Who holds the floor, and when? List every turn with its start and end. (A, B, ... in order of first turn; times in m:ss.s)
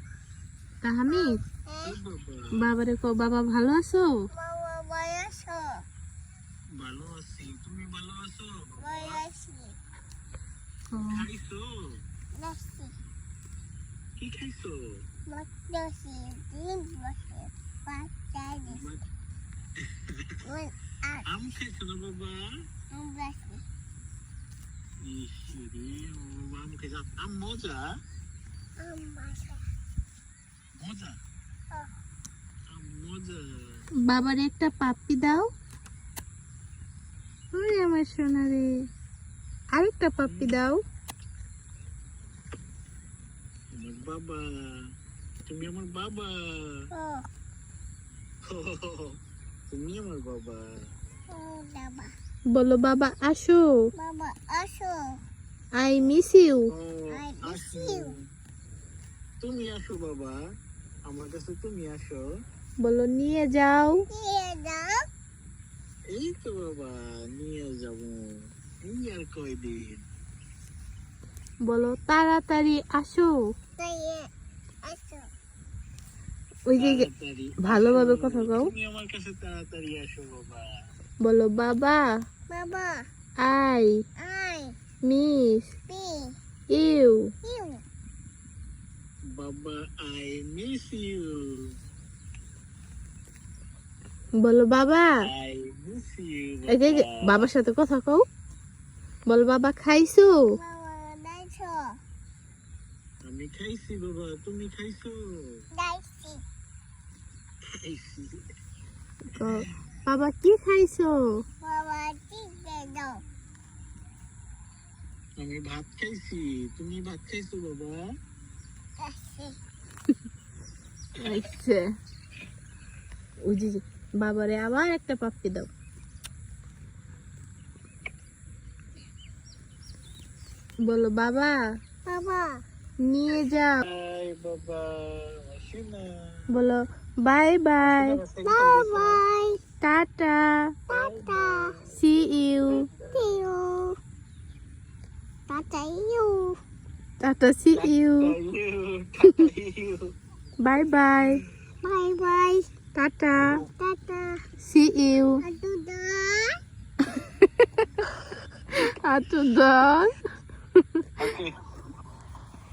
0:00.8-0:01.4 A
0:01.1-0:02.0 B
0:01.8-0:02.7 C
0:02.6-0:04.1 A
0:04.3-0:05.8 B
0:06.8-0:09.2 C
0:08.8-0:09.8 B
0:10.9-0:11.2 A
0:11.1-0:12.0 C
0:12.4-0:13.0 B
0:14.2-0:15.0 C
0:15.3-0:18.8 B
0:18.7-0:19.0 C
0:20.0-0:20.4 C
0:20.4-0:21.2 B
0:21.3-0:22.5 C
0:22.9-0:23.6 B
0:25.0-0:28.0 C
0:28.8-0:29.6 B
0:30.8-0:31.2 C
0:32.7-0:33.9 C
0:34.0-0:35.5 A
0:37.5-0:38.7 A
0:39.7-0:40.8 A
0:40.2-0:40.6 C
0:43.7-0:44.5 C
0:45.5-0:46.8 C
0:46.9-0:47.2 B
0:48.5-0:49.2 C
0:49.7-0:50.7 C
0:51.3-0:52.1 B
0:52.5-0:53.8 A
0:54.0-0:55.2 B
0:55.7-0:56.7 A
0:56.7-0:58.3 C
0:57.1-0:58.2 B
0:59.4-1:00.4 C
1:01.0-1:02.4 C
1:02.8-1:04.1 A
1:04.1-1:05.0 B
1:06.1-1:10.0 C
1:11.6-1:13.4 A
1:13.8-1:14.3 B
1:14.8-1:15.3 B
1:16.7-1:17.1 A
1:16.8-1:20.7 C
1:17.6-1:18.7 A
1:21.2-1:22.2 A
1:22.5-1:23.1 B
1:23.4-1:24.0 A
1:24.2-1:24.8 B
1:25.0-1:25.7 A
1:25.9-1:26.4 B
1:26.7-1:27.3 A
1:27.4-1:27.8 B
1:29.3-1:31.8 C
1:34.4-1:35.2 A
1:35.2-1:37.5 C
1:36.7-1:38.2 A
1:39.3-1:40.4 A
1:40.5-1:42.0 B
1:43.2-1:45.6 C
1:45.7-1:46.4 B
1:47.8-1:48.4 C
1:49.3-1:51.4 A
1:51.6-1:53.2 B
1:55.4-1:58.1 C
1:59.0-1:59.6 B
2:01.2-2:01.8 A
2:03.4-2:05.7 A
2:10.8-2:11.6 A
2:12.0-2:12.6 B
2:13.0-2:13.9 A
2:13.8-2:16.5 C
2:16.5-2:18.2 A
2:17.8-2:19.2 C
2:18.4-2:19.6 B
2:19.8-2:20.8 A
2:20.9-2:21.8 B
2:20.9-2:21.9 C
2:21.9-2:22.9 A
2:22.7-2:23.3 C
2:23.1-2:24.0 B
2:25.5-2:26.6 B
2:27.2-2:28.4 A
2:27.7-2:30.1 C
2:30.6-2:31.4 A
2:31.8-2:32.7 B
2:32.9-2:33.6 A
2:33.4-2:33.7 C
2:33.8-2:34.4 B
2:34.6-2:35.4 A
2:35.4-2:36.6 B
2:37.6-2:37.9 A
2:38.7-2:40.2 A
2:41.2-2:41.6 C